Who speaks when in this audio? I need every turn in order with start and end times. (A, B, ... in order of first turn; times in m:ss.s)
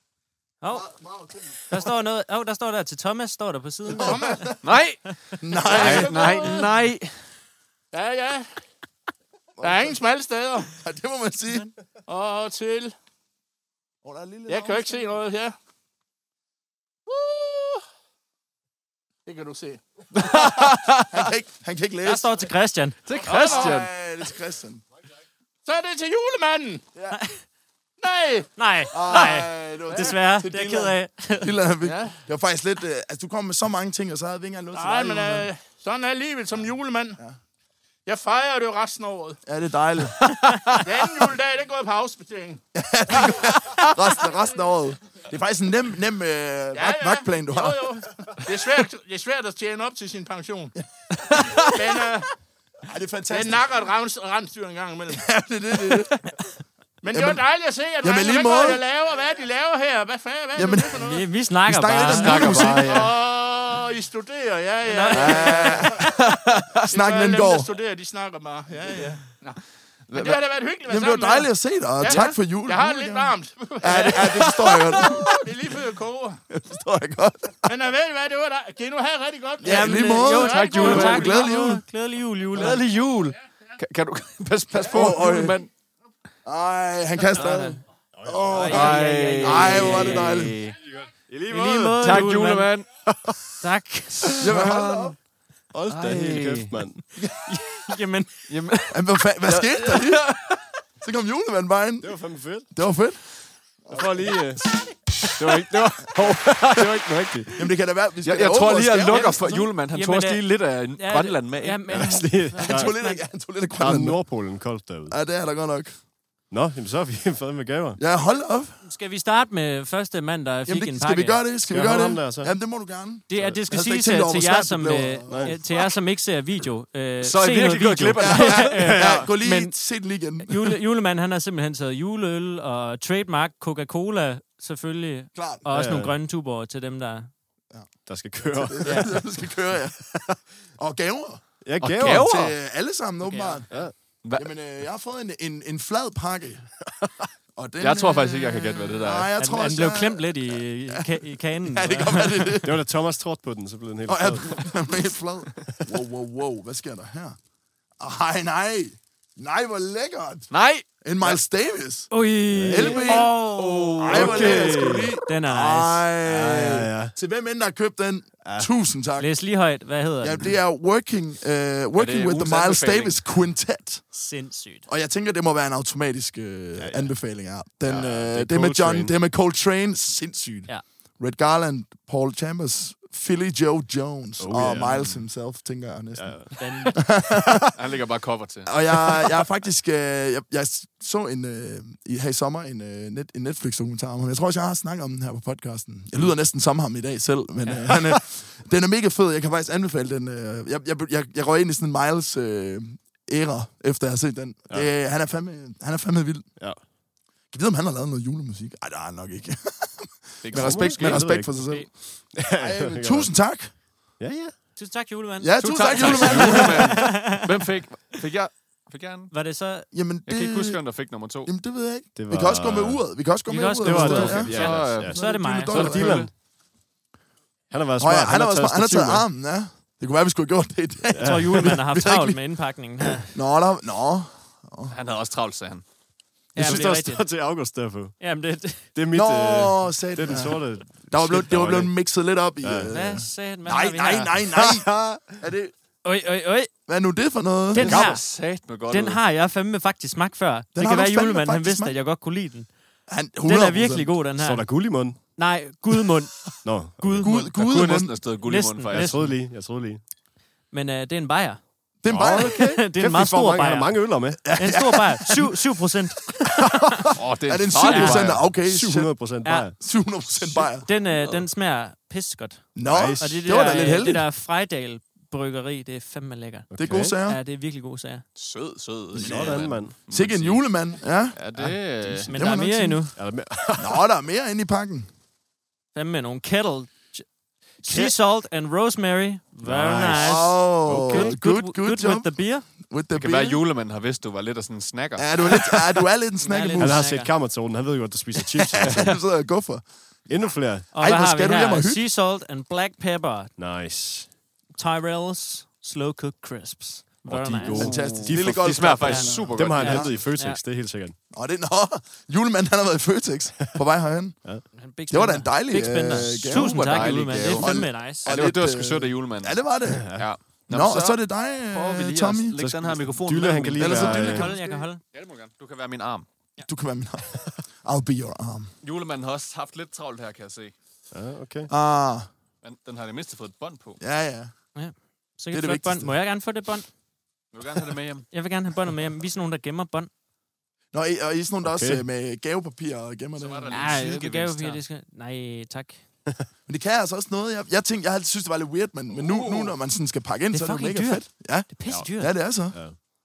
0:00.6-0:00.9 A
0:00.7-0:01.8 B
0:01.7-0:04.5 A
0:03.9-0:04.6 B
0:03.9-0:04.5 C
0:04.6-0:05.1 D
0:05.4-0:06.4 B
0:05.6-0:06.7 C
0:05.6-0:07.1 D
0:07.9-0:08.5 C
0:09.6-0:10.0 B
0:09.6-0:10.7 C
0:10.8-0:11.7 B
0:12.1-0:12.9 C
0:14.0-0:15.0 B
0:14.5-0:15.5 C
0:17.1-0:17.8 C
0:19.2-0:19.8 C
0:20.1-0:21.3 D
0:21.0-0:22.3 B
0:22.0-0:23.0 A
0:23.0-0:23.9 D
0:23.2-0:24.8 B
0:23.2-0:23.8 C
0:25.6-0:26.8 C
0:27.1-0:27.4 A
0:28.0-0:28.5 C
0:28.6-0:31.6 A
0:28.9-0:35.5 B
0:31.8-0:32.2 C
0:34.7-0:37.2 C
0:38.0-0:39.4 C
0:39.4-0:40.3 B
0:40.2-0:40.8 D
0:40.8-0:42.6 C
0:42.7-0:47.9 B
0:46.7-0:50.7 C
0:51.3-0:51.7 D
0:51.6-0:52.3 C
0:52.8-0:53.7 B
0:53.3-0:55.3 C
0:55.1-0:56.2 B
0:57.0-1:01.2 C
0:57.1-0:57.4 B
0:58.0-0:58.8 B
1:00.5-1:01.0 B
1:00.9-1:02.8 A
1:01.6-1:03.0 B
1:01.9-1:03.1 D
1:02.6-1:06.1 C
1:04.8-1:05.9 A
1:05.1-1:06.1 B
1:06.0-1:06.9 D
1:06.9-1:07.7 B
1:06.9-1:09.6 C
1:10.1-1:10.4 D
1:10.1-1:16.4 C
1:10.9-1:15.4 B
1:12.0-1:12.3 D
1:16.5-1:17.7 B
1:17.6-1:21.4 C
1:19.6-1:21.8 B
1:19.6-1:22.8 A
1:20.4-1:21.4 D
1:22.5-1:25.7 D
1:24.8-1:25.6 B
1:26.4-1:30.6 B
1:27.3-1:27.8 A
1:28.2-1:29.0 E
1:28.4-1:30.4 A
1:28.5-1:30.8 D
1:30.9-1:32.3 E
1:31.5-1:32.7 A
1:32.0-1:32.9 D
1:33.1-1:33.5 E
1:33.6-1:34.4 A
1:34.4-1:35.1 D
1:34.4-1:35.2 B
1:35.7-1:37.0 E
1:35.9-1:36.8 D
1:37.3-1:38.7 A
1:38.5-1:40.6 D
1:38.9-1:40.3 B
1:41.0-1:44.4 B
1:42.0-1:42.7 E
1:43.9-1:47.6 E
1:45.4-1:47.2 D
1:47.6-1:49.7 B
1:48.2-1:52.2 D
1:49.1-1:53.2 A
1:51.9-1:52.9 E
1:52.6-1:54.4 B
1:53.7-1:55.2 E
1:55.1-1:56.0 B
1:56.5-1:58.0 E
1:58.0-1:58.8 B
1:58.8-2:01.4 A
2:00.7-2:05.6 B
2:01.7-2:02.5 E
2:03.3-2:09.8 A
2:03.3-2:03.6 E
2:05.3-2:05.6 E
2:07.2-2:09.2 D
2:08.2-2:10.8 B
2:10.4-2:17.3 A
2:15.3-2:15.6 B
2:15.7-2:16.2 E
2:18.0-2:19.3 E
2:18.5-2:20.2 B
2:18.8-2:19.1 A
2:20.1-2:20.4 E
2:20.7-2:21.4 B
2:21.6-2:22.4 E
2:21.8-2:22.6 D
2:22.0-2:23.8 B
2:23.2-2:23.6 A
2:23.7-2:23.9 E
2:24.2-2:24.5 D
2:24.3-2:26.7 B
2:27.5-2:32.8 B
2:27.8-2:29.3 D
2:29.4-2:32.6 A
2:32.6-2:34.7 E
2:34.1-2:37.4 B
2:38.0-2:40.5 B
2:40.5-2:41.4 D
2:41.0-2:42.1 B
2:42.1-2:44.6 A
2:42.5-2:43.1 E
2:42.6-2:43.4 B
2:42.9-2:45.1 D
2:44.0-2:49.3 B
2:44.1-2:45.2 E
2:45.2-2:46.1 A
2:46.2-2:47.2 E
2:48.4-2:48.7 E
2:49.2-2:50.5 A
2:50.2-2:54.1 B
2:51.9-2:53.2 D
2:54.1-2:54.9 A
2:54.9-3:07.7 B
2:56.8-2:57.2 E
2:57.8-2:59.1 E
3:04.4-3:05.3 E
3:06.2-3:06.7 E
3:06.6-3:07.0 A
3:07.7-3:08.8 D
3:08.6-3:26.6 B
3:27.5-3:33.8 B
3:30.4-3:31.4 D
3:30.5-3:33.4 E
3:31.5-3:31.9 A
3:34.2-3:34.6 E
3:34.7-3:37.4 A
3:35.4-3:37.1 B
3:35.6-3:39.3 D
3:39.3-3:39.9 A
3:39.9-3:40.9 B
3:40.2-3:41.5 D
3:41.4-3:46.3 B
3:42.1-3:43.1 E
3:43.5-3:46.0 A
3:43.8-3:46.3 E
3:44.3-3:46.3 D
3:47.7-3:49.3 E
3:48.0-3:52.4 B
3:51.1-3:51.8 E
3:51.2-3:53.4 A
3:53.2-3:55.0 B
3:54.9-3:55.8 D
3:56.5-3:57.3 A
3:56.6-3:58.3 E
3:56.6-3:56.8 B
3:58.2-3:58.9 A
3:58.9-4:02.0 E
3:59.1-4:05.7 B
4:02.6-4:02.9 E
4:02.9-4:04.4 A
4:04.5-4:05.4 E
4:06.0-4:06.7 A
4:06.9-4:08.0 B
4:07.7-4:12.7 A
4:07.7-4:09.2 D
4:07.8-4:08.1 E
4:10.7-4:12.0 B
4:13.1-4:14.2 B
4:13.4-4:17.5 A
4:14.3-4:15.4 E
4:16.6-4:17.4 E
4:17.2-4:18.2 B
4:17.3-4:19.3 D
4:18.4-4:19.4 A
4:18.9-4:20.0 E
4:20.7-4:21.6 A
4:22.0-4:22.8 B
4:22.1-4:24.5 E
4:22.1-4:27.1 A
4:24.4-4:25.6 B
4:26.6-4:30.9 B
4:27.1-4:28.5 D
4:27.8-4:28.2 A
4:28.3-4:29.8 E
4:29.4-4:29.7 A
4:30.8-4:38.2 A
4:32.8-4:34.3 B
4:32.8-4:33.5 E
4:36.7-4:37.2 E
4:36.8-4:37.4 B
4:38.4-4:42.3 D
4:39.1-4:40.0 E
4:39.2-4:41.5 B
4:41.6-4:42.3 E
4:42.2-4:43.1 B
4:42.3-4:43.1 A
4:43.1-4:44.0 E
4:43.8-4:45.1 B
4:45.9-4:47.3 A
4:47.8-4:52.7 A
4:47.9-4:48.1 B
4:49.6-4:51.4 E
4:50.1-4:53.6 B
4:53.1-4:55.7 D
4:55.2-4:57.1 B
4:56.4-4:57.4 A
4:56.8-4:59.2 E
4:58.7-5:02.0 B
4:58.8-4:59.2 D
5:00.3-5:00.9 E
5:00.9-5:03.5 A
5:03.6-5:04.3 E
5:04.7-5:08.1 A
5:07.2-5:11.2 E
5:07.7-5:10.2 B
5:07.9-5:10.1 D
5:09.0-5:10.6 A
5:11.3-5:22.6 B
5:14.7-5:18.3 A
5:16.5-5:26.3 D
5:20.0-5:20.3 E
5:22.6-5:24.5 E
5:23.8-5:24.6 B
5:23.9-5:25.0 A
5:26.6-5:28.7 B
5:28.8-5:30.7 D
5:31.1-5:31.7 E
5:31.7-5:32.3 B
5:32.6-5:34.0 D
5:34.0-5:34.5 B
5:34.7-5:36.9 A
5:35.5-5:36.1 B
5:37.5-5:38.3 D
5:38.3-5:40.1 A
5:40.9-5:44.0 B
5:41.6-5:42.0 E
5:43.4-5:44.8 D
5:43.7-5:46.0 A
5:46.6-5:52.9 B
5:49.1-5:49.8 D
5:50.5-5:52.4 A
5:52.7-5:53.0 E